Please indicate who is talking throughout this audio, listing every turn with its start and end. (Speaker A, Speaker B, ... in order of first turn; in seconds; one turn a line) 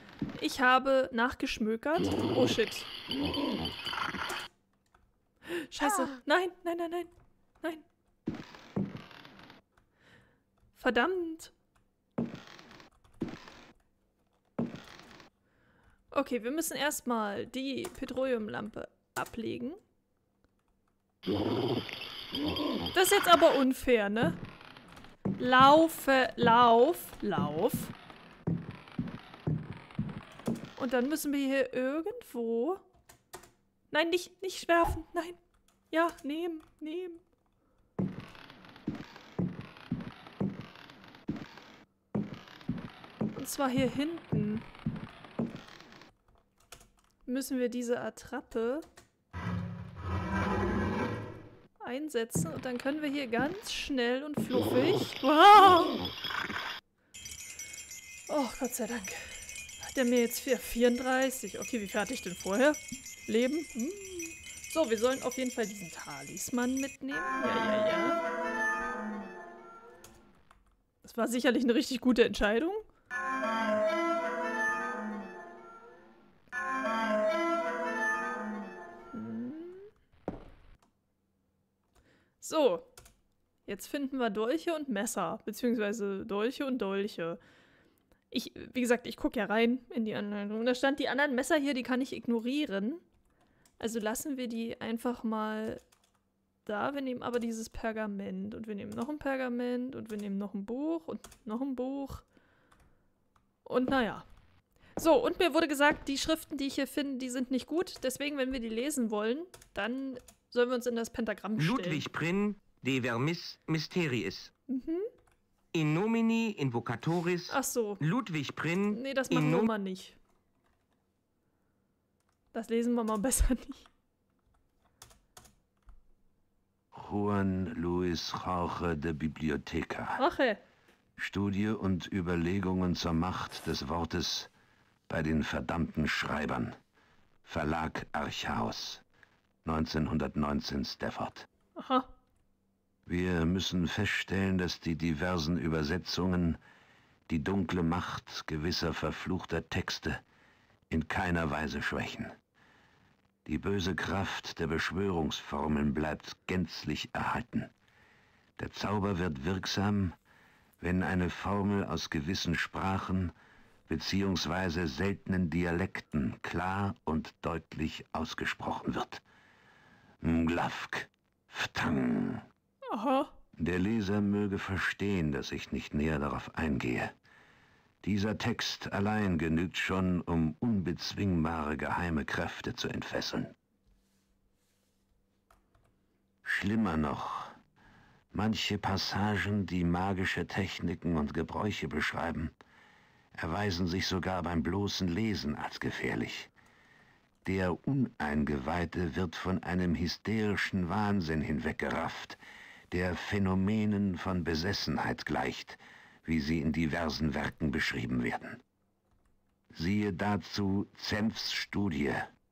Speaker A: 0.3-2.9
Speaker A: 5.5-7.1
Speaker A: 10.8-11.5
Speaker A: 16.1-19.8
Speaker A: 22.9-24.4
Speaker A: 25.4-27.9
Speaker A: 30.8-32.8
Speaker A: 33.9-35.4
Speaker A: 35.9-37.2
Speaker A: 43.3-44.7
Speaker A: 47.2-48.9
Speaker A: 51.8-56.0
Speaker A: 58.3-68.2
Speaker A: 71.0-72.9
Speaker A: 79.1-79.9
Speaker A: 82.4-82.9
Speaker A: 83.7-87.4
Speaker A: 88.3-93.0
Speaker A: 93.8-95.8
Speaker A: 96.7-102.2
Speaker A: 103.6-104.2
Speaker A: 105.0-112.0
Speaker B: 111.6-114.5
Speaker A: 114.7-115.1
Speaker B: 115.7-119.7
Speaker A: 117.5-118.0
Speaker A: 118.9-120.2
Speaker A: 122.5-123.9
Speaker C: 126.9-130.2
Speaker A: 130.2-130.6
Speaker C: 131.2-134.5
Speaker C: 135.1-136.8
Speaker C: 137.5-139.0
Speaker C: 139.7-141.5
Speaker A: 141.8-142.1
Speaker C: 143.1-146.6
Speaker C: 147.3-150.2
Speaker C: 150.9-152.3
Speaker C: 153.5-157.7
Speaker C: 158.6-160.2
Speaker C: 160.8-163.3
Speaker C: 163.9-169.2
Speaker C: 170.2-172.5
Speaker A: 172.9-173.3
Speaker C: 173.6-177.1
Speaker C: 178.0-183.5
Speaker C: 186.4-187.6
Speaker C: 188.3-192.5
Speaker C: 193.3-196.5
Speaker C: 197.4-202.4
Speaker C: 202.9-208.6
Speaker C: 209.7-212.3